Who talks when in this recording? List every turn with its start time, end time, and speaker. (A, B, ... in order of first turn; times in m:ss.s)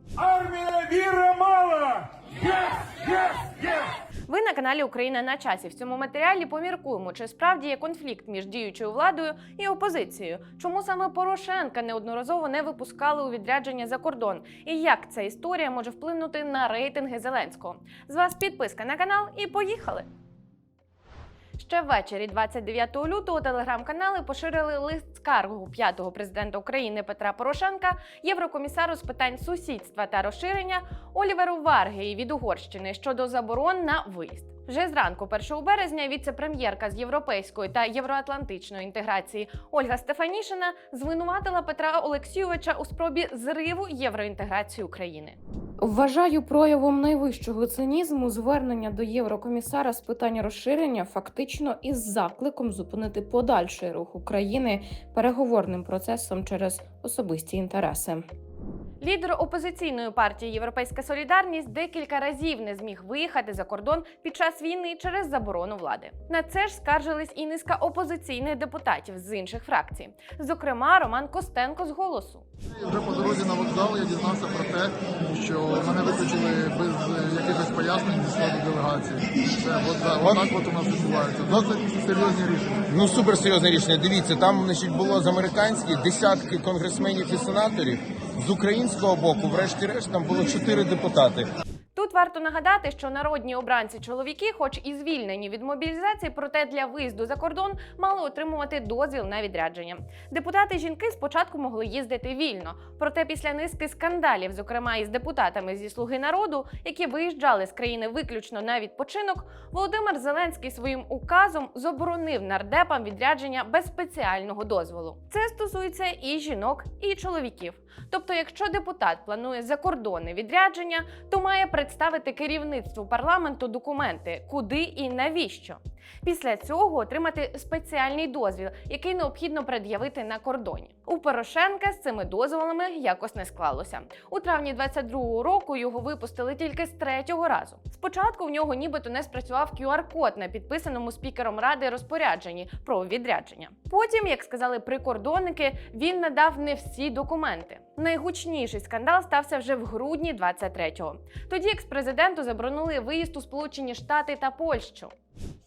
0:00.2-0:03.8 A
0:04.3-0:20.1 B
0:21.6-0:45.4 B
0:45.8-0:58.2 C
0:59.0-1:12.4 B
1:12.9-1:22.8 D
1:20.2-1:20.5 E
1:22.9-1:31.4 E
1:31.9-2:35.1 B